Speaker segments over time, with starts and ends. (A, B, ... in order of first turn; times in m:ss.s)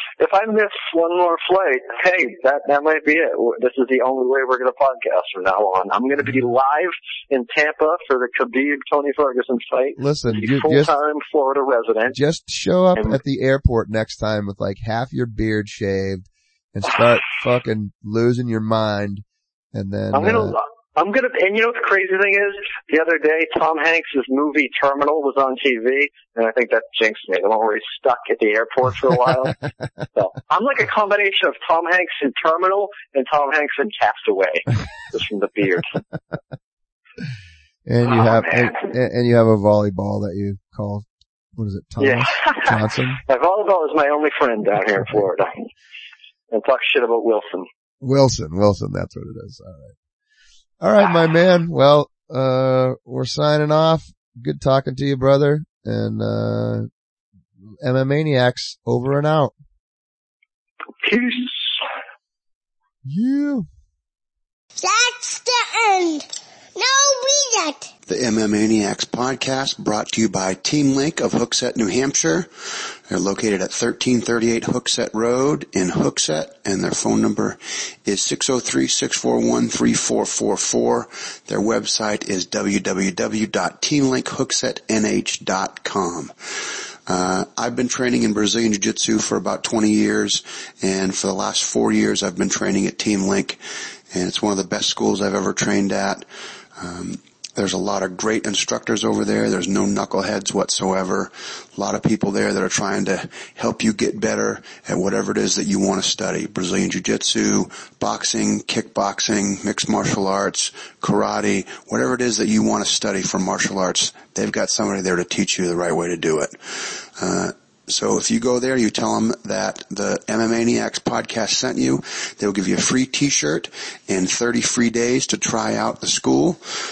0:00.2-0:12.2 A
0:10.0-0:10.9 B
0:12.1-0:20.6 B
0:20.1-0:29.6 A
0:30.1-0:35.9 A
0:37.8-0:43.2 B
0:38.0-0:38.8 A
0:42.0-0:45.7 A
0:46.5-0:47.7 A
0:48.0-0:49.9 B
0:50.8-0:56.9 B
0:57.8-0:59.5 B
1:01.0-1:01.8 A
1:03.0-1:03.7 B
1:04.8-1:07.9 C
1:08.0-1:12.5 D
1:13.1-1:26.3 D
1:27.1-1:36.2 D
1:36.8-1:56.6 D
1:57.2-2:06.6 D